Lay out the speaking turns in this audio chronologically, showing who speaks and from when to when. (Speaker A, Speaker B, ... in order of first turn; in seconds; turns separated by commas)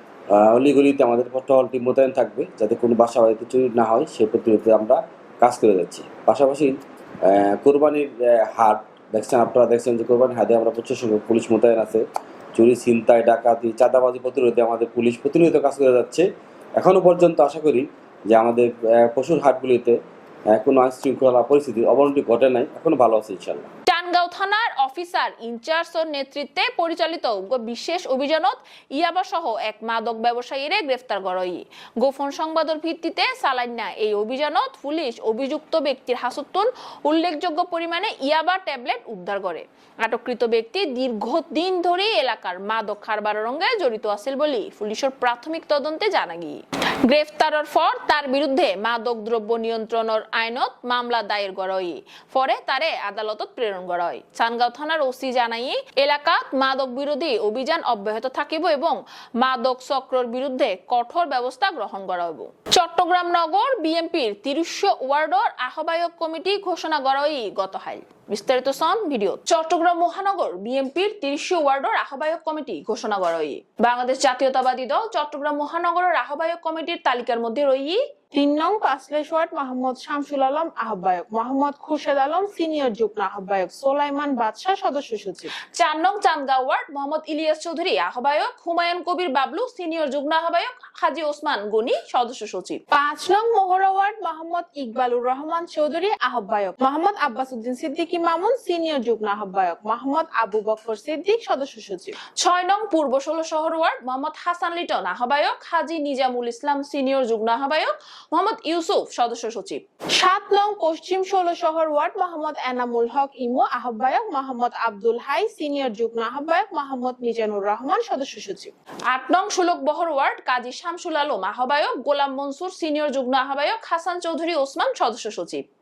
Speaker A: 0.3-20.0, Speaker A: 20.5-23.7, Speaker B: 23.9-78.0, Speaker C: 78.3-85.5, Speaker B: 85.8-92.8, Speaker C: 92.9-102.1, Speaker B: 102.4-109.8, Speaker C: 110.2-118.7, Speaker B: 119.1-125.6